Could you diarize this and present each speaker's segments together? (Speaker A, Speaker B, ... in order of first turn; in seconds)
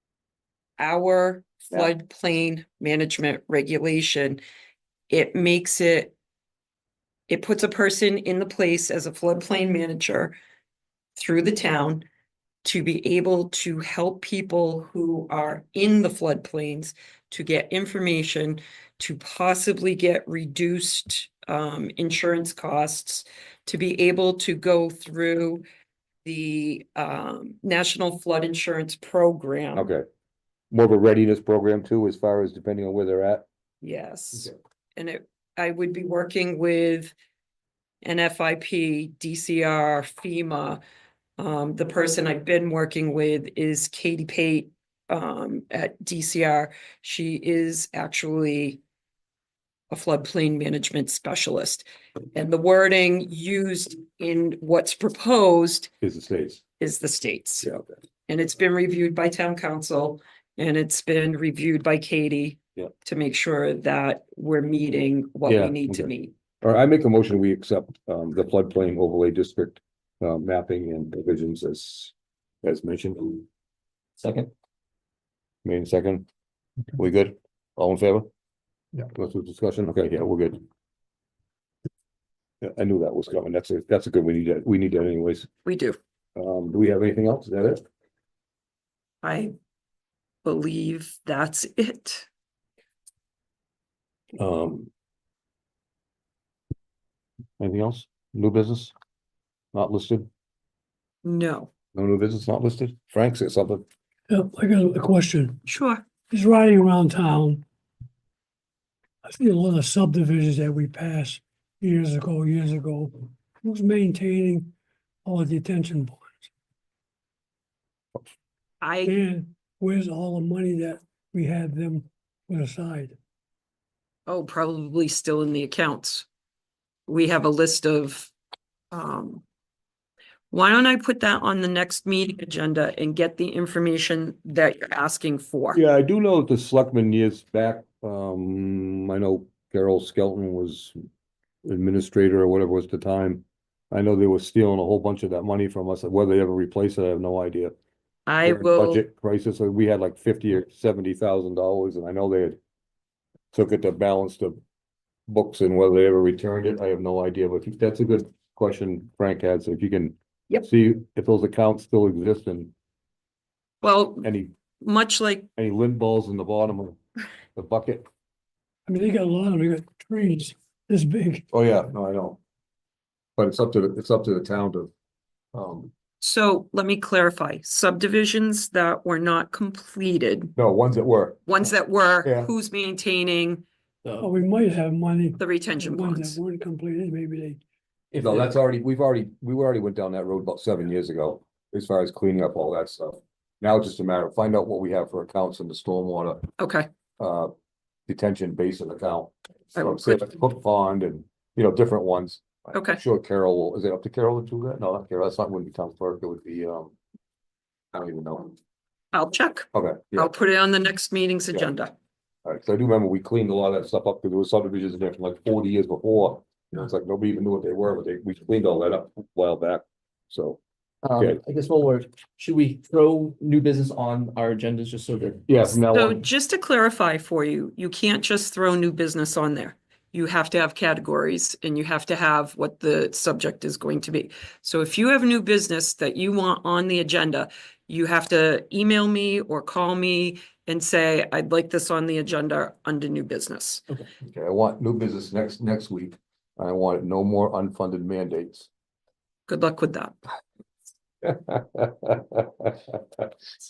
Speaker A: 0.8-4.4, 5.1-6.1, 7.3-10.3, 11.2-12.1, 12.6-25.6, 26.2-29.9, 33.8-37.1, 38.0-40.8, 41.4-48.8, 49.9-55.9, 56.8-57.7, 58.3-66.3, 85.6-86.0, 89.2-89.5, 90.4-92.3, 101.2-101.7, 105.7-106.0, 118.8-119.2, 124.3-126.3, 127.1-128.3, 128.9-129.4, 130.5-135.8, 148.3-149.0, 163.8-164.3, 164.8-165.5, 176.2-180.5, 181.5-183.6, 185.4-186.4, 196.6-196.9, 199.8-200.3, 202.7-203.0, 209.1-211.9, 225.7-243.8, 249.5-250.2
Speaker B: 29.7-30.1, 30.7-33.5, 56.0-56.6, 57.6-58.0, 65.5-73.4, 75.6-76.3, 76.9-78.3, 79.0-80.6, 82.6-85.5, 86.4-87.8, 94.4-94.9, 97.6-98.9, 99.7-100.3, 101.9-103.8, 135.8-140.9, 141.6-147.8, 148.4-152.6, 153.5-154.6, 155.3-162.7, 164.2-164.5, 165.6-167.0, 167.6-168.1, 171.5-172.4, 173.4-174.9, 175.5-175.9, 180.6-181.6, 182.2-182.5, 188.2-196.4, 197.2-197.5, 198.1-206.9, 207.9-208.5, 209.7-210.3, 212.4-220.6, 225.5-226.2, 244.2-248.7, 251.2-253.3
Speaker C: 74.2-74.5, 188.1-188.5, 221.0-225.5
Speaker D: 104.3-105.6, 106.3-107.6, 109.2-114.7, 115.2-116.4, 119.0-123.2, 168.9-171.4, 184.2-187.6